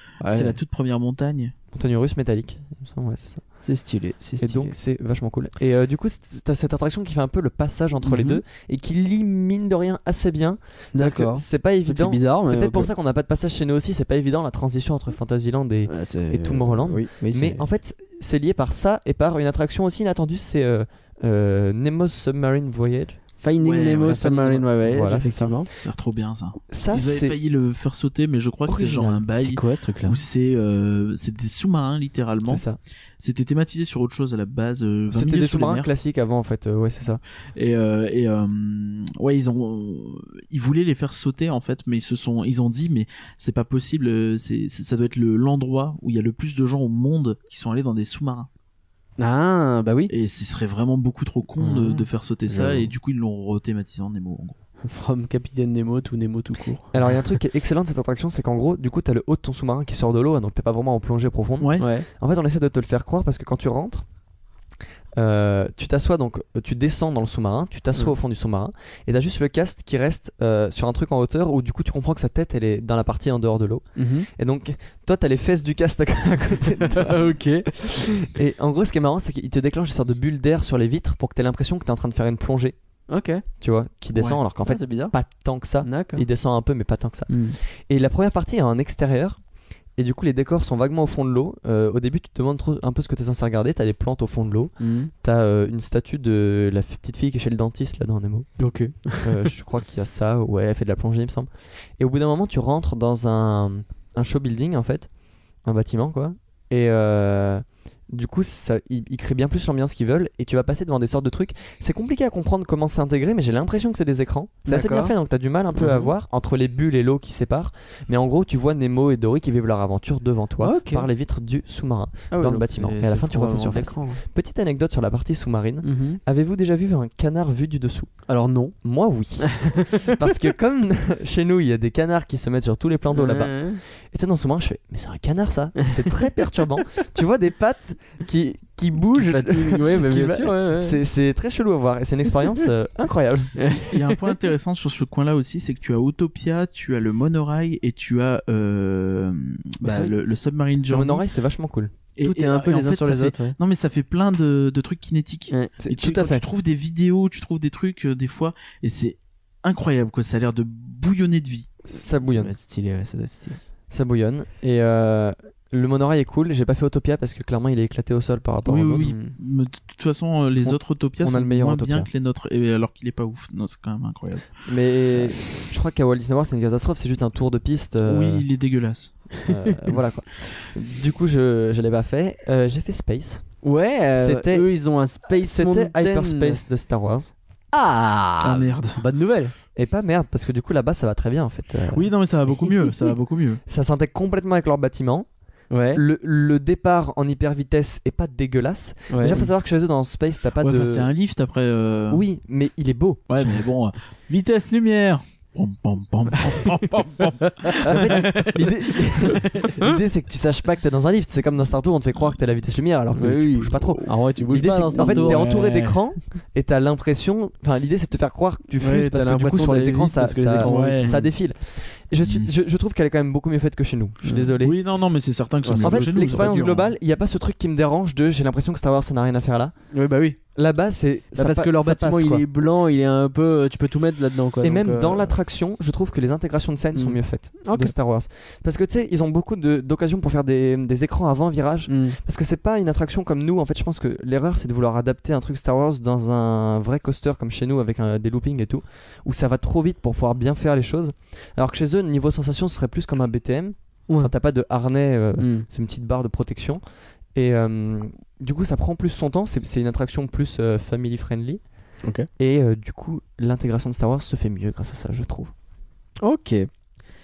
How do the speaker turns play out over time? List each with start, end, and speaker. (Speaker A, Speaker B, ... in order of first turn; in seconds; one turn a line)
Speaker A: 0.2-0.6
Speaker B: 0.2-1.5
Speaker C: 1.7-3.4
Speaker A: 3.6-4.7
Speaker C: 4.4-23.2
Speaker A: 8.0-8.4
Speaker A: 10.9-12.9
Speaker A: 15.9-17.6
Speaker A: 23.4-25.7
Speaker B: 23.6-24.7
Speaker C: 24.8-25.6
Speaker B: 25.7-32.7
Speaker C: 26.7-27.4
Speaker C: 28.6-29.2
Speaker A: 29.4-30.2
Speaker C: 32.4-32.8
Speaker B: 33.2-35.9
Speaker C: 35.1-37.2
Speaker B: 37.5-48.5
Speaker A: 49.2-50.1
Speaker B: 50.1-54.5
Speaker C: 51.6-52.9
Speaker A: 52.5-52.8
Speaker A: 54.8-57.2
Speaker C: 56.9-64.0
Speaker B: 61.6-61.9
Speaker A: 61.8-62.0
Speaker C: 65.2-82.8
Speaker A: 74.0-74.3
Speaker A: 76.8-78.1
Speaker A: 83.1-83.4
Speaker C: 83.6-89.4
Speaker A: 84.7-85.1
Speaker A: 85.8-86.2
Speaker A: 87.3-87.6
Speaker C: 90.0-98.6
Speaker A: 94.8-95.1
Speaker A: 98.6-99.5
Speaker C: 99.2-105.1
Speaker C: 105.6-128.2
Speaker A: 114.7-115.1
Speaker A: 115.7-116.1
Speaker A: 120.6-121.1
Speaker A: 122.3-124.2
Speaker A: 125.8-126.2
Speaker A: 128.3-128.8
Speaker C: 128.8-143.6
Speaker A: 129.4-130.2
Speaker A: 133.1-133.8
Speaker A: 139.2-141.0
Speaker A: 143.6-144.2
Speaker B: 143.9-151.2
Speaker A: 149.8-150.1
Speaker C: 150.9-151.9
Speaker B: 152.2-161.7
Speaker A: 152.2-153.6
Speaker C: 155.8-156.4
Speaker C: 161.8-162.5
Speaker A: 162.2-163.6
Speaker C: 163.9-169.2
Speaker B: 168.6-174.7
Speaker A: 169.0-169.3
Speaker C: 170.6-172.1
Speaker C: 174.7-178.4
Speaker B: 178.0-179.3
Speaker C: 179.4-183.4
Speaker A: 183.6-186.6
Speaker C: 184.2-184.7
Speaker C: 185.3-187.3
Speaker A: 187.7-189.5
Speaker B: 188.4-189.0
Speaker C: 189.8-192.1
Speaker B: 191.9-193.6
Speaker A: 192.6-192.9
Speaker C: 193.7-195.3
Speaker A: 195.7-196.0
Speaker C: 195.9-201.1
Speaker A: 199.1-199.5
Speaker B: 200.6-202.2
Speaker C: 202.1-203.3
Speaker B: 203.3-209.4
Speaker A: 207.4-208.0
Speaker C: 207.8-224.8
Speaker A: 209.5-209.9
Speaker A: 213.1-215.5
Speaker B: 213.8-214.2
Speaker B: 214.9-216.0
Speaker A: 218.8-221.3
Speaker B: 220.6-221.2
Speaker B: 222.2-222.5
Speaker A: 224.2-224.5
Speaker B: 224.6-226.9
Speaker A: 225.6-226.7
Speaker C: 225.8-229.7
Speaker A: 229.9-230.4
Speaker C: 230.5-232.4
Speaker A: 231.3-235.3
Speaker C: 234.6-256.8
Speaker A: 236.9-237.9
Speaker A: 241.9-242.2
Speaker A: 255.4-255.7
Speaker C: 257.3-261.6
Speaker A: 262.0-262.3
Speaker C: 262.4-265.5
Speaker A: 266.2-266.7